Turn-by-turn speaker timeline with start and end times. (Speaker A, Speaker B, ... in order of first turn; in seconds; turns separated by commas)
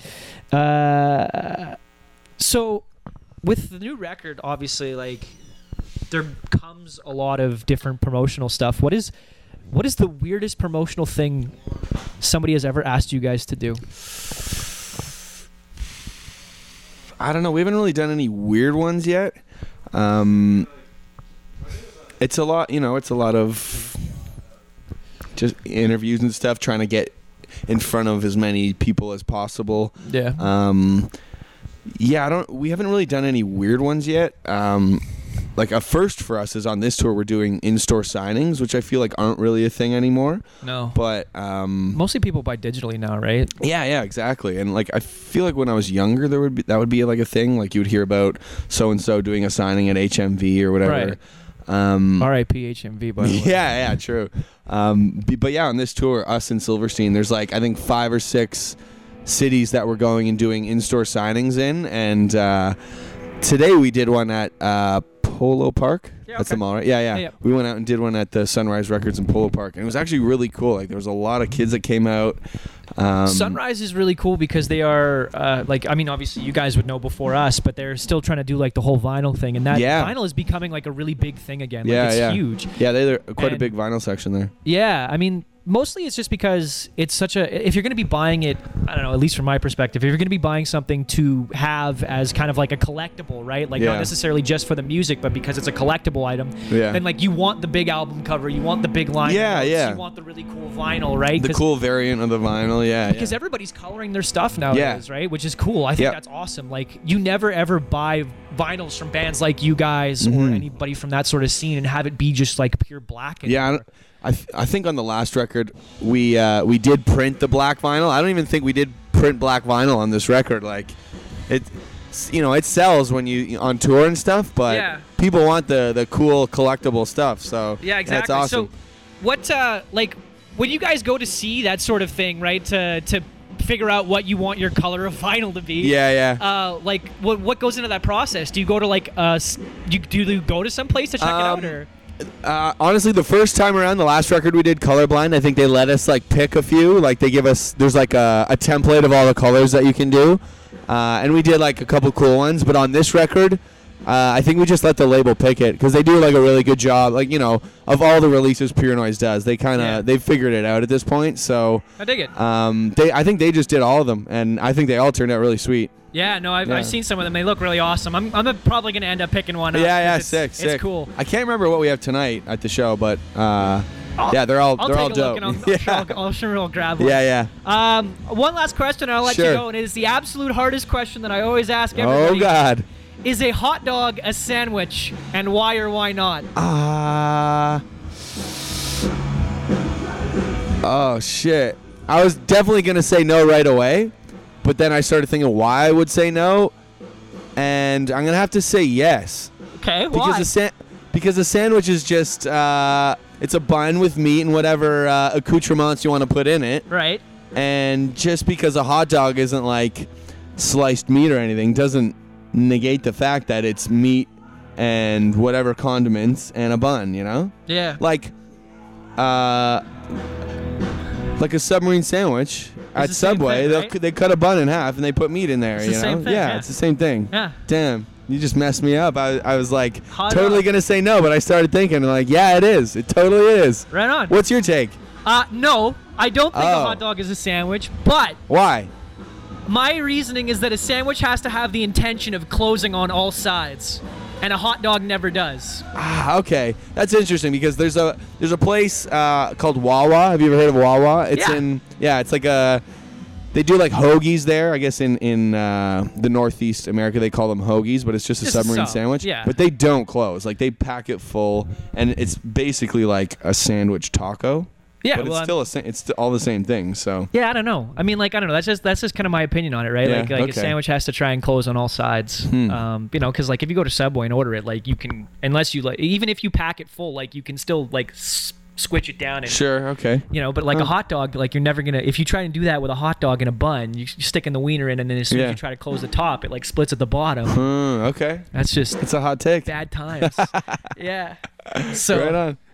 Speaker A: 0.5-1.8, Speaker A: 2.4-2.9, Speaker A: 3.4-5.3, Speaker A: 6.1-9.1, Speaker A: 9.7-11.6, Speaker A: 12.2-13.8, Speaker B: 17.2-19.4, Speaker B: 19.9-20.7, Speaker B: 22.2-24.0, Speaker B: 25.4-27.1, Speaker B: 27.6-31.1, Speaker A: 30.0-30.4, Speaker B: 31.9-35.0, Speaker B: 35.5-40.4, Speaker A: 40.6-41.0, Speaker B: 40.9-42.0, Speaker A: 41.9-43.5, Speaker B: 43.6-52.3, Speaker A: 50.8-51.2, Speaker A: 52.2-53.8, Speaker B: 53.2-62.8, Speaker B: 63.4-72.4, Speaker A: 66.3-67.3, Speaker B: 73.0-73.6, Speaker A: 73.2-82.7, Speaker B: 79.7-80.1, Speaker B: 81.8-84.5, Speaker A: 83.4-83.7, Speaker A: 84.6-101.6, Speaker B: 93.8-94.1, Speaker B: 96.7-97.0, Speaker B: 99.2-100.0, Speaker B: 101.3-103.3, Speaker A: 103.1-113.8, Speaker B: 104.7-105.0, Speaker B: 110.2-110.7, Speaker B: 113.5-121.0, Speaker B: 121.5-128.7, Speaker A: 124.7-125.0, Speaker A: 127.8-141.9, Speaker B: 135.8-136.4, Speaker B: 141.2-161.8, Speaker A: 159.7-160.0, Speaker A: 162.0-162.3, Speaker B: 162.3-165.9, Speaker A: 166.1-171.1, Speaker B: 166.6-167.0, Speaker B: 169.7-176.2, Speaker A: 174.2-182.6, Speaker B: 177.0-177.5, Speaker B: 179.2-179.6, Speaker B: 181.9-182.8, Speaker A: 183.2-186.5, Speaker B: 186.5-187.8, Speaker B: 190.8-194.1, Speaker B: 194.6-196.7, Speaker B: 197.6-199.5, Speaker A: 199.8-200.5, Speaker B: 200.1-206.8, Speaker A: 206.9-207.2, Speaker B: 207.5-218.3, Speaker A: 217.7-218.0, Speaker B: 219.2-219.8, Speaker B: 221.4-235.0, Speaker A: 222.9-223.9, Speaker A: 225.8-226.7, Speaker A: 227.3-227.6, Speaker A: 230.1-230.7, Speaker A: 233.9-234.4, Speaker A: 235.2-238.4, Speaker B: 236.5-237.0, Speaker B: 238.5-238.9, Speaker A: 239.7-245.8, Speaker B: 245.9-252.8, Speaker A: 251.3-251.6, Speaker B: 253.5-267.3, Speaker A: 258.4-259.5, Speaker A: 265.0-265.6, Speaker A: 267.3-279.6, Speaker B: 270.0-270.8, Speaker B: 272.5-272.8, Speaker B: 279.4-280.9, Speaker A: 280.3-287.6, Speaker B: 285.3-285.6, Speaker B: 287.5-288.5, Speaker A: 288.5-289.0, Speaker B: 289.0-290.8, Speaker A: 289.6-292.4, Speaker B: 291.7-292.6